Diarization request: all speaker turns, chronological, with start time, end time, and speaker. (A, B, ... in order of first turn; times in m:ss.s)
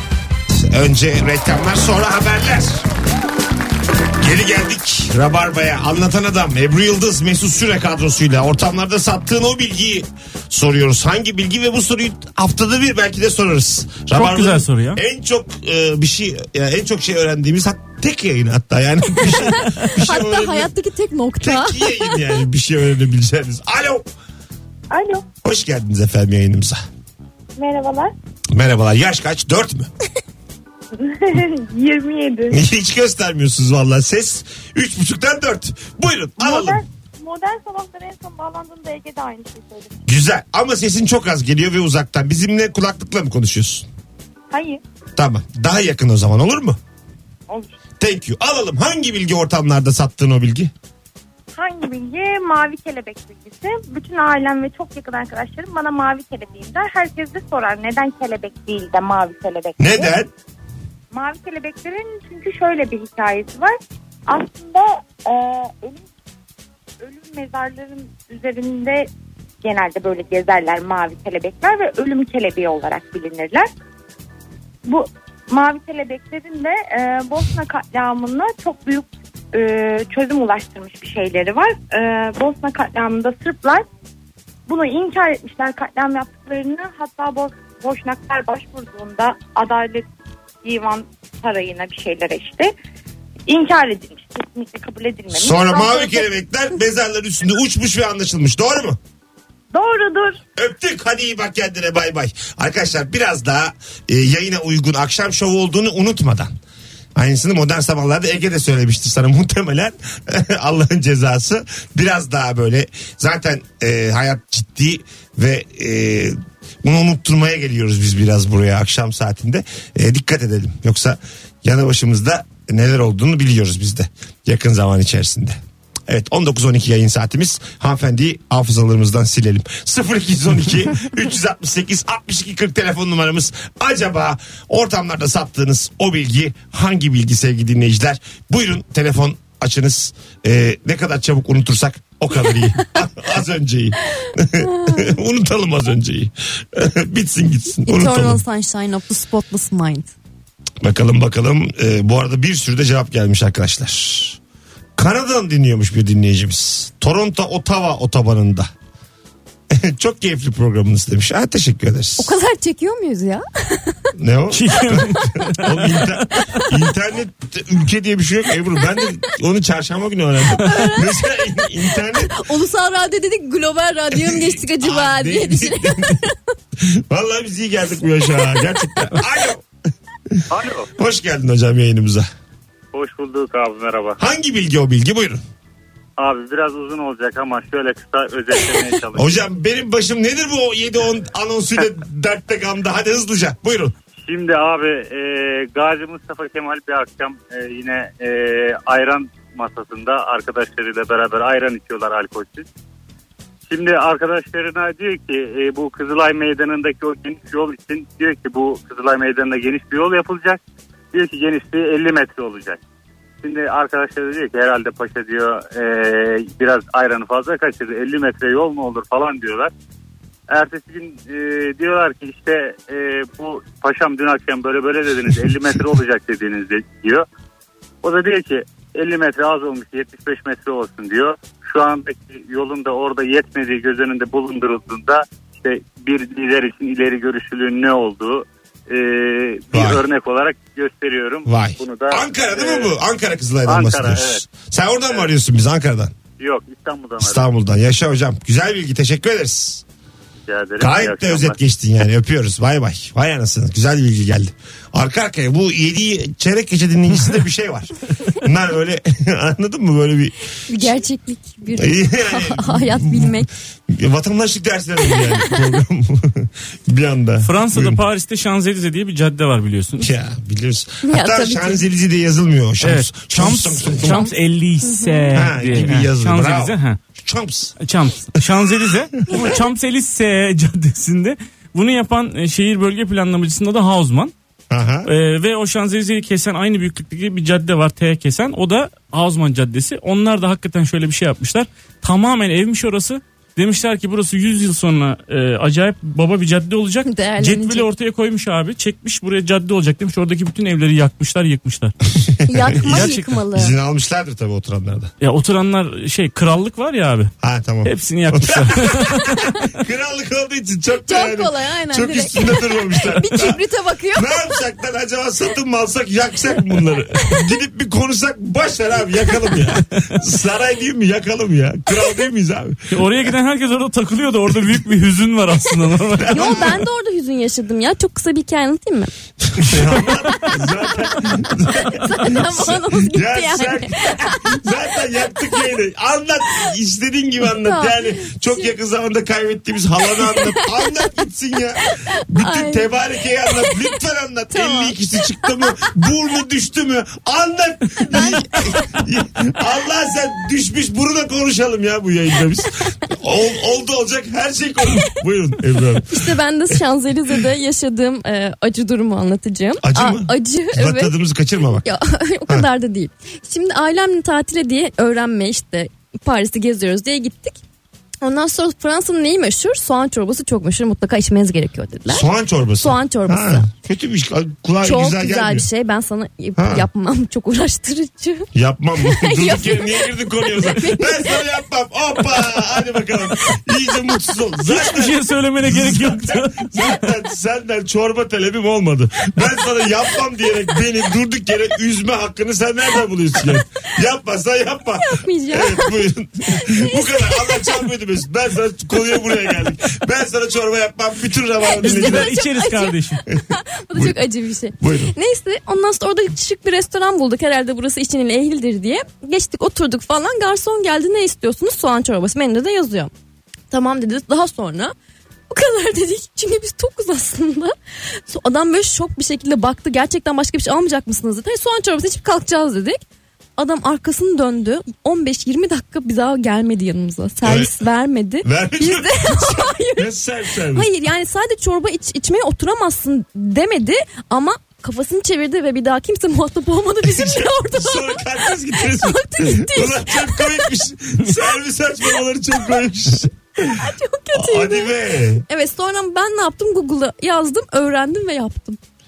0:00.6-0:02.8 A
0:04.2-0:20.7 A
0:14.1-0:15.0 B
0:19.2-0:22.2 C
0:21.4-0:24.0 A
0:24.9-0:25.2 D
0:25.4-0:26.8 A
0:27.6-0:28.1 D
0:28.5-0:29.9 A
0:30.9-0:32.6 D
0:32.5-0:36.8 A
0:36.4-0:39.9 D
0:40.1-0:43.9 A
0:44.5-0:44.8 D
0:45.2-0:46.8 A
0:48.0-0:50.7 A
0:51.5-1:00.1 D
0:59.8-1:00.3 A
1:01.1-1:03.7 D
1:04.3-1:06.0 D
1:07.0-1:09.1 D
1:09.6-1:13.7 D
1:14.8-1:23.8 D
1:24.7-1:30.1 D
1:30.6-1:32.7 D
1:33.5-1:36.2 D
1:35.3-1:39.0 A
1:39.7-1:40.4 D
1:40.6-1:46.5 A
1:47.2-2:28.4 A
2:24.6-2:25.1 C
2:27.8-2:30.1 C
2:30.8-2:34.4 A
2:35.0-2:38.7 A
2:39.7-2:42.4 A
2:42.2-2:44.0 C
2:44.2-2:52.4 A
2:44.5-2:45.7 B
2:50.6-2:51.1 C
2:52.1-2:56.3 C
2:54.1-2:56.2 A
2:56.8-2:59.6 A
3:00.5-3:00.9 E
3:00.9-3:02.2 A
3:02.9-3:04.2 E
3:04.2-3:05.4 A
3:06.2-3:09.4 E
3:09.1-3:13.9 A
3:14.2-3:22.7 E
3:23.7-3:30.6 E
3:31.1-3:32.8 E
3:33.4-3:39.7 E
3:40.5-3:47.2 E
3:48.0-4:02.9 E
3:59.7-4:00.0 A
4:01.4-4:06.1 A
4:03.7-4:04.4 E
4:06.4-4:07.4 E
4:07.2-4:09.8 A
4:10.5-4:11.6 E
4:10.8-4:21.0 A
4:20.7-4:23.5 C
4:21.7-4:28.0 A
4:25.1-4:25.4 C
4:27.4-4:30.1 B
4:30.0-4:34.3 A
4:31.0-4:31.8 C
4:32.8-4:37.0 B
4:34.8-4:35.3 C
4:35.3-4:37.7 A
4:37.8-4:44.3 B
4:44.7-4:45.1 A
4:45.0-5:01.9 B
4:57.0-4:57.8 C
5:02.2-5:05.1 A
5:02.5-5:03.7 C
5:02.8-5:03.3 B
5:05.2-5:07.3 B
5:07.4-5:13.6 A
5:07.8-5:09.4 B
5:11.0-5:14.5 C
5:14.1-5:23.1 A
5:22.9-5:26.7 B
5:26.2-5:26.8 A
5:26.3-5:29.1 C
5:29.6-5:56.8 A
5:31.9-5:34.6 C
5:37.6-5:38.7 C
5:40.2-5:41.1 C
5:42.4-5:42.9 C
5:43.4-5:43.8 C
5:44.5-5:45.9 C
5:48.1-5:48.9 C
5:56.1-6:01.1 C
5:59.8-6:01.8 A
6:01.8-6:07.6 C
6:08.2-6:12.2 C
6:12.1-6:15.7 A
6:12.8-6:13.7 C
6:14.8-6:18.5 C
6:16.6-6:16.8 A
6:18.5-6:42.4 A
6:19.0-6:21.4 C
6:24.6-6:27.0 B
6:35.0-6:37.8 C
6:41.6-6:53.1 C
6:41.9-6:43.2 B
6:44.8-6:45.1 A
6:53.7-6:54.9 C
6:55.5-6:57.7 C
6:58.3-7:03.0 C
7:03.6-7:10.0 C
7:07.4-7:07.7 A
7:08.4-7:10.9 A
7:10.7-7:20.7 C
7:17.0-7:23.8 A
7:23.6-7:24.9 C
7:24.3-7:25.4 A
7:25.4-7:28.8 C